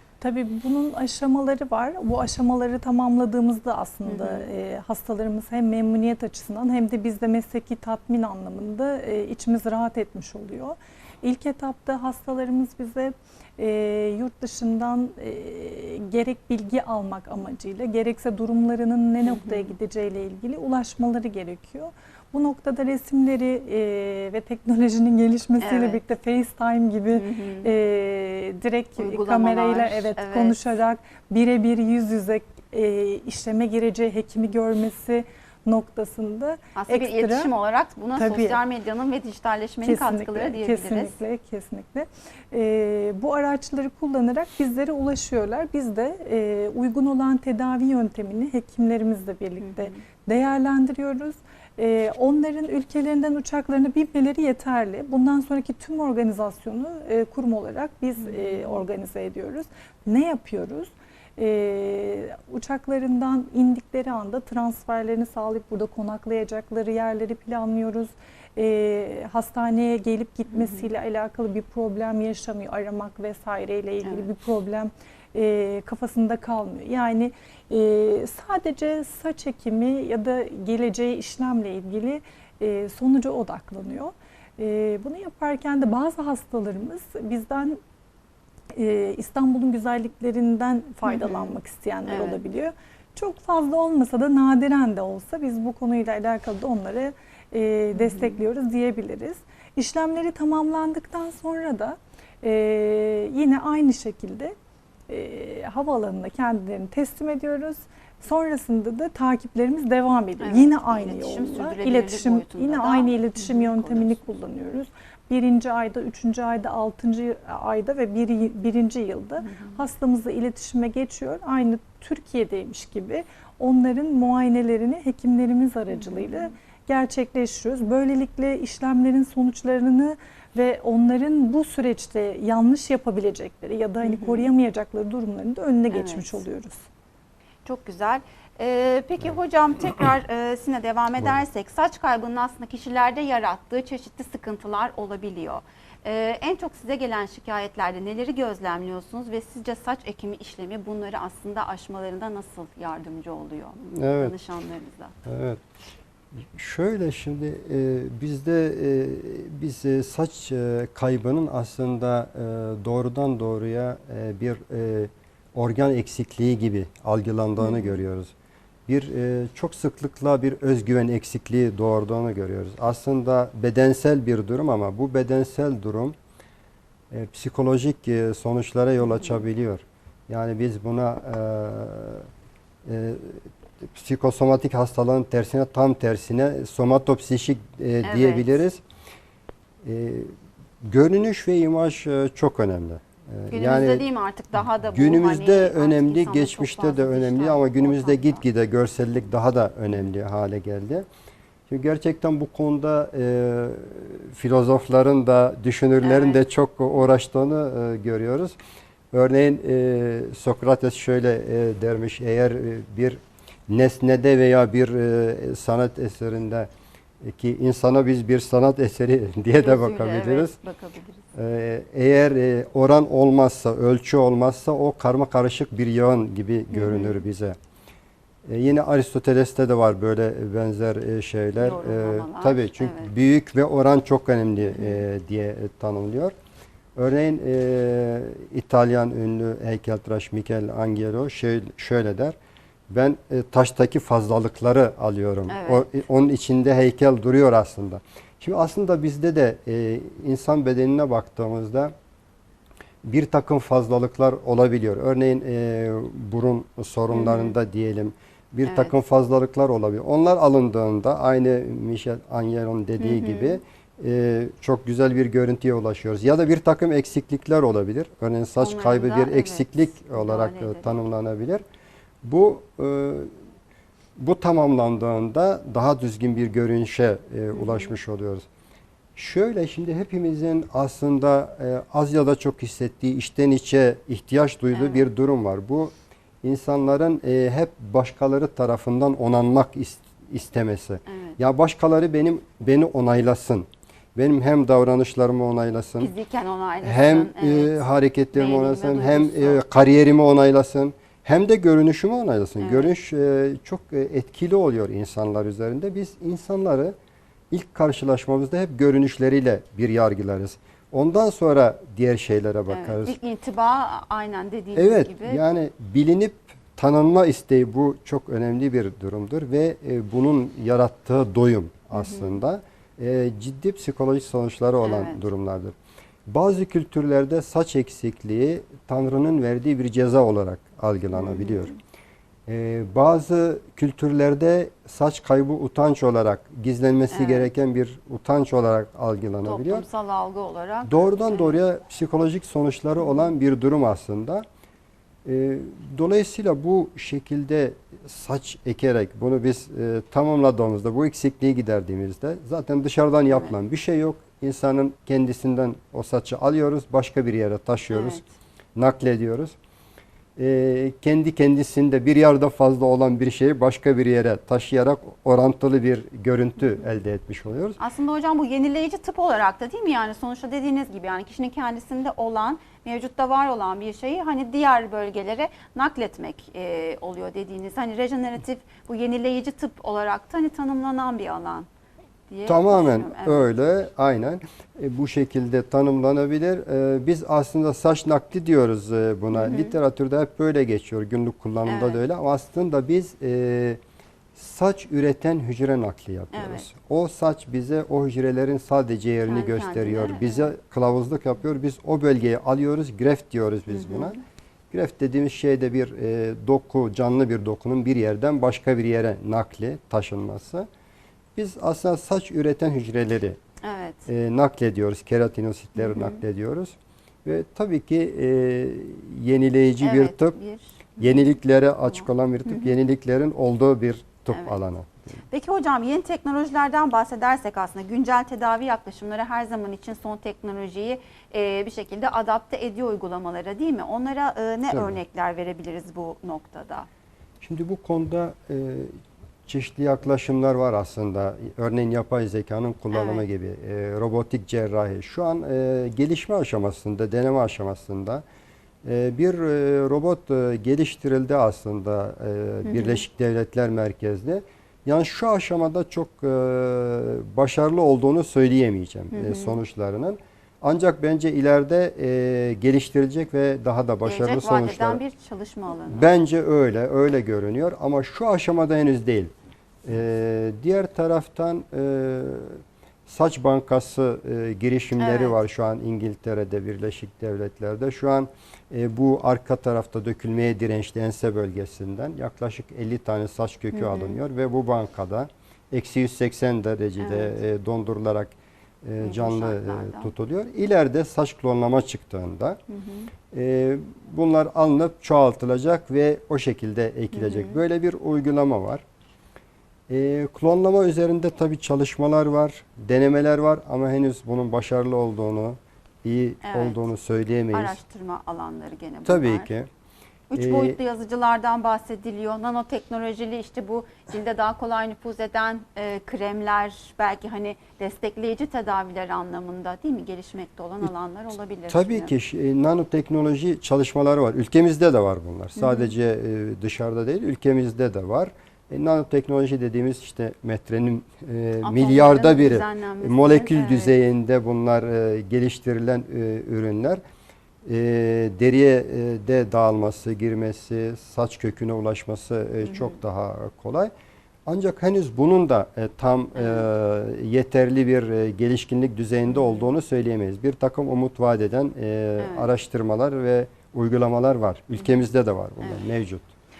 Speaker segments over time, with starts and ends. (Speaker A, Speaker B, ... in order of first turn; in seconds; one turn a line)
Speaker A: 0.2-37.5
Speaker B: 4.0-4.5
Speaker B: 19.2-19.7
Speaker B: 25.6-26.0
Speaker B: 27.1-27.7
Speaker B: 29.0-30.6
Speaker B: 36.7-41.1
Speaker A: 38.1-38.6
Speaker A: 39.8-87.8
Speaker B: 49.6-50.0
Speaker B: 58.2-58.8
Speaker B: 70.5-70.9
Speaker A: 88.7-104.5
Speaker B: 91.0-91.5
Speaker B: 92.1-92.4
Speaker B: 97.9-98.4
Speaker A: 105.1-136.8
Speaker B: 110.4-114.2
Speaker B: 119.4-119.8
Speaker B: 125.9-126.5
Speaker B: 134.0-134.5
Speaker B: 135.9-136.4
Speaker B: 137.6-155.1
Speaker C: 153.9-154.3
Speaker C: 155.2-155.6
Speaker C: 156.5-168.3
Speaker B: 167.6-168.0
Speaker C: 168.9-176.1
Speaker C: 177.1-182.3
Speaker C: 182.8-188.8
Speaker B: 188.0-188.5
Speaker C: 189.8-194.0
Speaker B: 193.5-198.4
Speaker C: 194.9-201.1
Speaker C: 201.7-208.6
Speaker B: 206.0-206.4
Speaker C: 209.1-216.7
Speaker C: 217.2-220.6
Speaker B: 219.6-221.2
Speaker C: 221.3-227.6
Speaker B: 226.7-227.2
Speaker C: 228.4-236.3
Speaker B: 231.6-233.1
Speaker B: 234.6-235.0
Speaker C: 236.9-242.4
Speaker C: 242.9-251.9
Speaker B: 245.5-245.9
Speaker C: 253.0-271.6
Speaker B: 257.1-257.5
Speaker B: 258.6-258.9
Speaker B: 263.0-263.6
Speaker B: 268.6-270.9
Speaker C: 272.2-273.3
Speaker C: 274.2-278.4
Speaker B: 277.6-277.9
Speaker C: 279.1-285.9
Speaker B: 284.7-285.1
Speaker C: 286.4-296.1
Speaker B: 291.1-291.4
Speaker B: 296.0-299.6
Speaker C: 296.8-306.9
Speaker B: 302.6-302.9
Speaker C: 307.5-313.1
Speaker B: 312.7-315.4
Speaker C: 314.7-325.7
Speaker B: 321.9-322.4
Speaker B: 324.8-325.2
Speaker C: 326.2-331.7
Speaker B: 331.1-331.8
Speaker C: 332.5-339.8
Speaker B: 337.1-337.5
Speaker B: 339.4-341.5
Speaker C: 340.9-344.4
Speaker C: 345.2-358.2
Speaker B: 357.9-358.2
Speaker C: 358.8-359.6
Speaker C: 360.4-367.8
Speaker B: 367.8-381.7
Speaker B: 382.3-383.5
Speaker C: 382.4-393.8
Speaker B: 389.3-389.7
Speaker B: 391.6-392.0
Speaker C: 394.3-404.2
Speaker B: 396.3-396.7
Speaker B: 399.2-400.5
Speaker B: 403.7-404.2
Speaker C: 404.7-410.7
Speaker C: 411.4-413.4
Speaker B: 413.6-414.1
Speaker C: 414.1-420.4
Speaker B: 415.8-416.2
Speaker B: 419.8-421.2
Speaker C: 421.0-425.2
Speaker B: 422.4-422.7
Speaker B: 425.3-436.9
Speaker C: 434.7-435.0
Speaker C: 437.4-438.9
Speaker C: 439.4-448.2
Speaker B: 442.9-443.2
Speaker C: 448.8-465.0
Speaker B: 452.6-453.0
Speaker B: 459.1-459.6
Speaker B: 464.0-466.1
Speaker C: 465.9-469.3
Speaker C: 469.8-492.6
Speaker B: 475.0-475.4
Speaker B: 483.7-484.2
Speaker B: 487.0-487.3
Speaker B: 489.0-490.1
Speaker B: 492.7-493.1
Speaker C: 493.3-498.8
Speaker B: 497.1-497.6
Speaker C: 499.9-507.8
Speaker B: 506.4-506.8
Speaker B: 507.5-509.5
Speaker C: 509.0-509.7
Speaker B: 510.3-522.1
Speaker C: 510.4-510.8
Speaker C: 521.7-537.0
Speaker B: 525.6-525.9
Speaker B: 531.6-534.0
Speaker C: 537.6-543.9
Speaker B: 542.6-542.9
Speaker C: 544.5-556.2
Speaker B: 546.4-546.6
Speaker B: 549.3-549.7
Speaker B: 552.2-552.5